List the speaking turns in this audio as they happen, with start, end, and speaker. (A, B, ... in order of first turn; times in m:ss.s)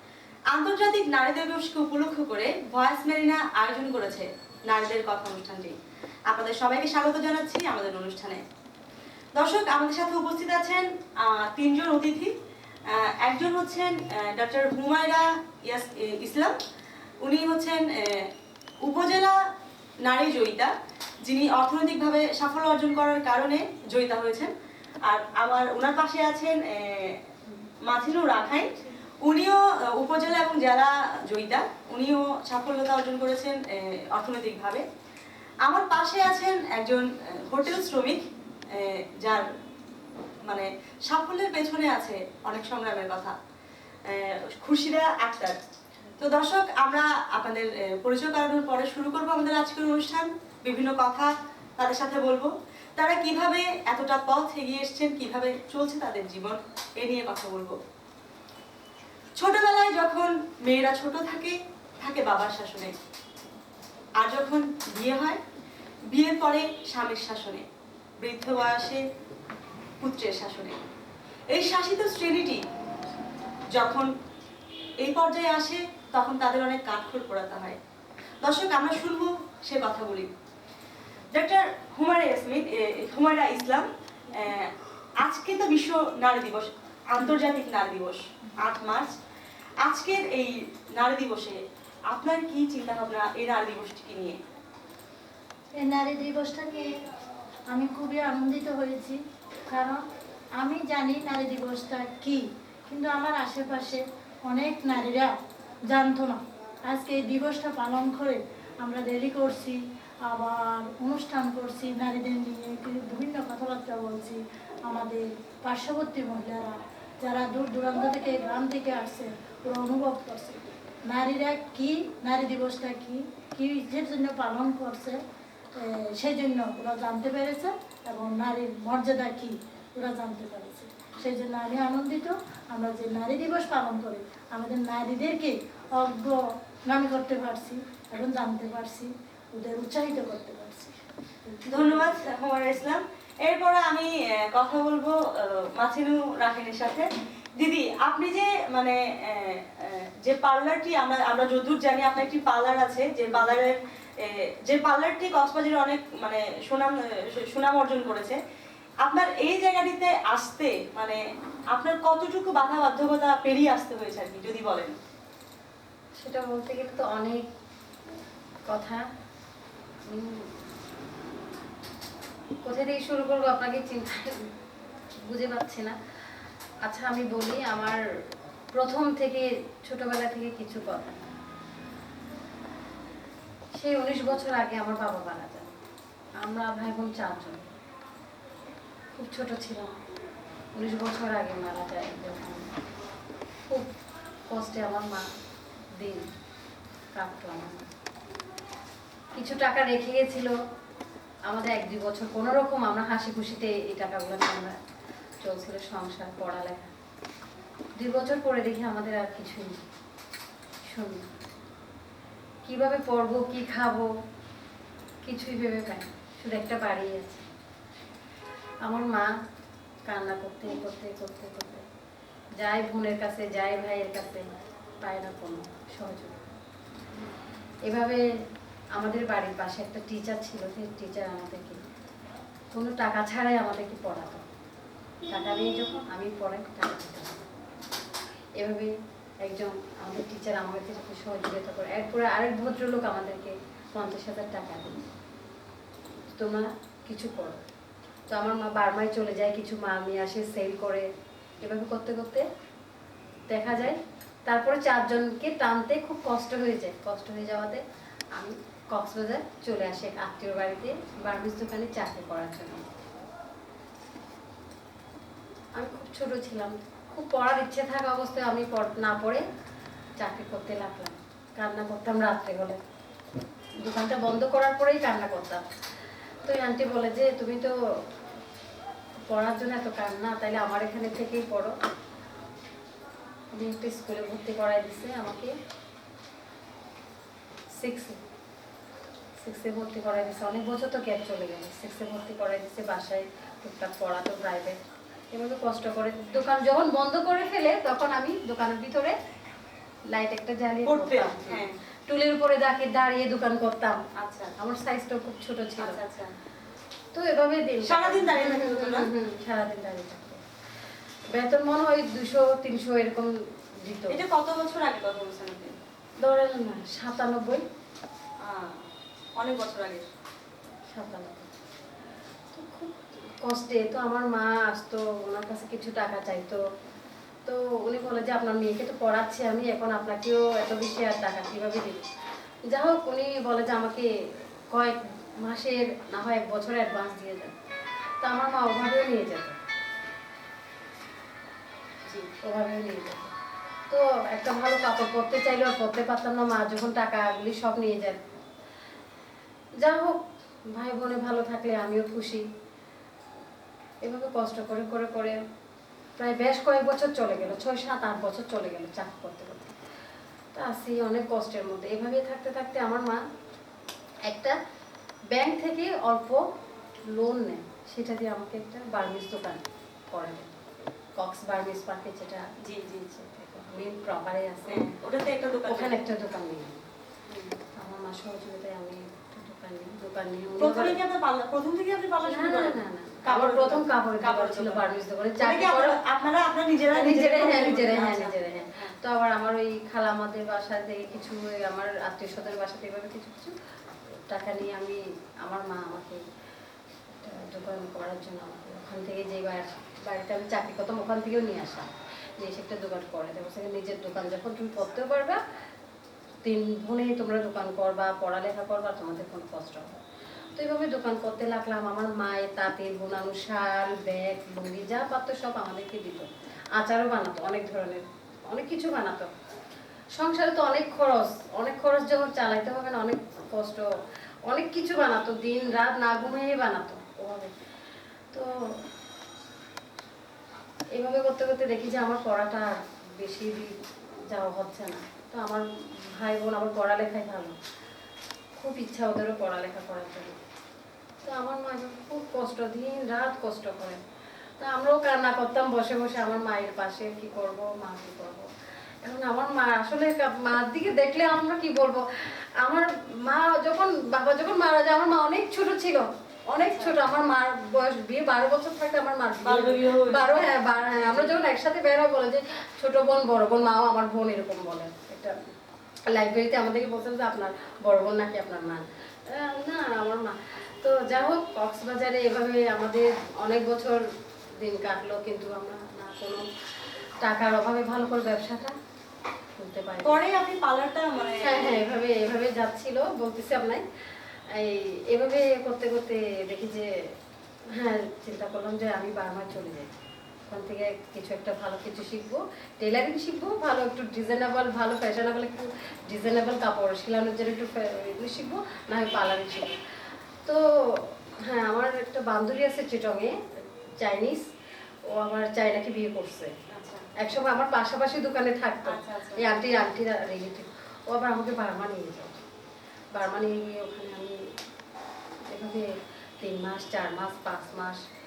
0:00.5-0:05.7 A
0:06.3-0:08.4 A
0:09.3-0:12.3 A
0:12.9-0:16.6 A
0:17.2-0:18.3 A
0:18.8-0:19.4 A
0:20.0-0:24.5 A
0:25.0-0:27.2 A
0:27.8-0:34.8 A
0:35.6-0:39.5 A
0:40.4-0:43.4 A
0:44.0-0:45.6 A
0:46.2-0:57.8 A
0:59.3-1:02.9 A
1:04.2-1:05.4 A
1:06.1-1:07.6 A
1:08.2-1:09.0 A
1:10.0-1:10.8 A
1:11.5-1:12.6 A
1:13.7-1:14.1 A
1:15.0-1:17.8 A
1:18.4-1:20.3 A
1:21.3-1:29.1 A
1:29.8-1:34.4 A
1:35.7-1:37.0 B
1:37.7-1:40.0 B
1:40.6-1:45.3 B
1:45.9-2:05.2 B
2:05.7-2:21.0 B
2:21.6-2:22.2 B
2:21.7-2:38.4 A
2:39.0-2:41.2 A
2:41.7-2:44.9 A
2:46.2-2:47.5 C
2:48.7-2:49.0 C
2:50.0-2:50.5 C
2:52.6-2:54.5 C
2:55.1-2:56.0 C
2:56.8-2:58.0 C
2:58.7-3:01.2 C
3:03.7-3:05.8 C
3:06.4-3:07.7 C
3:09.1-3:10.0 C
3:10.8-3:12.7 C
3:14.5-3:15.2 C
3:16.0-3:16.2 C
3:17.1-3:17.9 C
3:19.3-3:20.6 C
3:21.4-3:24.8 C
3:25.4-3:26.9 C
3:28.0-3:29.8 C
3:30.8-3:31.3 C
3:32.6-3:34.1 C
3:35.2-3:37.5 C
3:38.8-3:39.3 C
3:40.1-3:41.8 C
3:42.6-3:46.5 C
3:47.8-3:48.2 C
3:48.9-3:51.8 C
3:52.7-3:54.4 C
3:55.3-3:57.5 C
3:58.6-3:58.9 C
3:59.4-4:05.0 C
4:06.3-4:07.6 C
4:08.3-4:11.1 C
4:11.6-4:12.4 C
4:13.5-4:17.8 C
4:18.3-4:22.9 C
4:25.7-4:29.4 C
4:30.2-4:32.8 C
4:33.8-4:35.6 C
4:36.4-4:37.8 C
4:39.3-4:41.7 C
4:43.5-4:45.5 C
4:47.7-4:48.2 C
4:49.4-4:54.8 C
4:55.3-4:59.2 C
5:00.1-5:04.0 C
5:00.8-5:01.8 A
5:04.2-5:04.5 A
5:04.6-5:06.0 C
5:05.8-5:06.3 A
5:07.1-5:10.4 C
5:07.8-5:09.1 A
5:11.3-5:14.2 C
5:14.1-5:15.7 A
5:16.2-5:17.6 C
5:18.4-5:20.0 A
5:20.9-5:21.5 C
5:22.5-5:26.6 C
5:27.4-5:32.0 C
5:32.6-5:37.5 C
5:38.2-5:39.6 C
5:42.0-5:42.3 A
5:42.4-5:43.3 C
5:43.9-5:48.2 C
5:49.8-5:52.4 C
5:54.0-5:55.4 C
5:56.2-5:59.8 C
6:00.5-6:03.2 C
6:04.2-6:04.6 C
6:05.3-6:06.4 C
6:07.0-6:10.5 C
6:11.2-6:12.5 C
6:12.6-6:13.1 A
6:13.1-6:14.9 C
6:14.7-6:16.0 A
6:15.7-6:16.8 C
6:17.3-6:17.5 A
6:17.8-6:21.0 C
6:20.6-6:24.8 A
6:22.2-6:26.0 C
6:25.4-6:28.9 A
6:26.9-6:33.5 C
6:34.1-6:36.2 C
6:37.1-6:45.4 C
6:46.4-6:50.0 C
6:50.6-6:59.3 C
7:00.2-7:03.9 C
7:04.5-7:07.5 C
7:08.3-7:08.8 C
7:10.9-7:13.7 C
7:14.3-7:17.6 C
7:18.6-7:20.4 C
7:21.2-7:24.0 C
7:24.6-7:28.5 C
7:29.0-7:45.4 C
7:36.7-7:37.0 A
7:39.4-7:41.3 A
7:46.1-7:56.4 C
7:57.2-7:58.7 C
7:59.6-8:00.2 C
8:00.0-8:01.9 A
8:01.4-8:03.8 C
8:04.5-8:06.9 C
8:07.7-8:19.8 C
8:20.4-8:24.4 C
8:25.0-8:26.5 C
8:26.7-8:27.1 A
8:27.1-8:32.4 C
8:28.8-8:29.5 A
8:33.1-8:34.5 C
8:35.4-8:38.0 C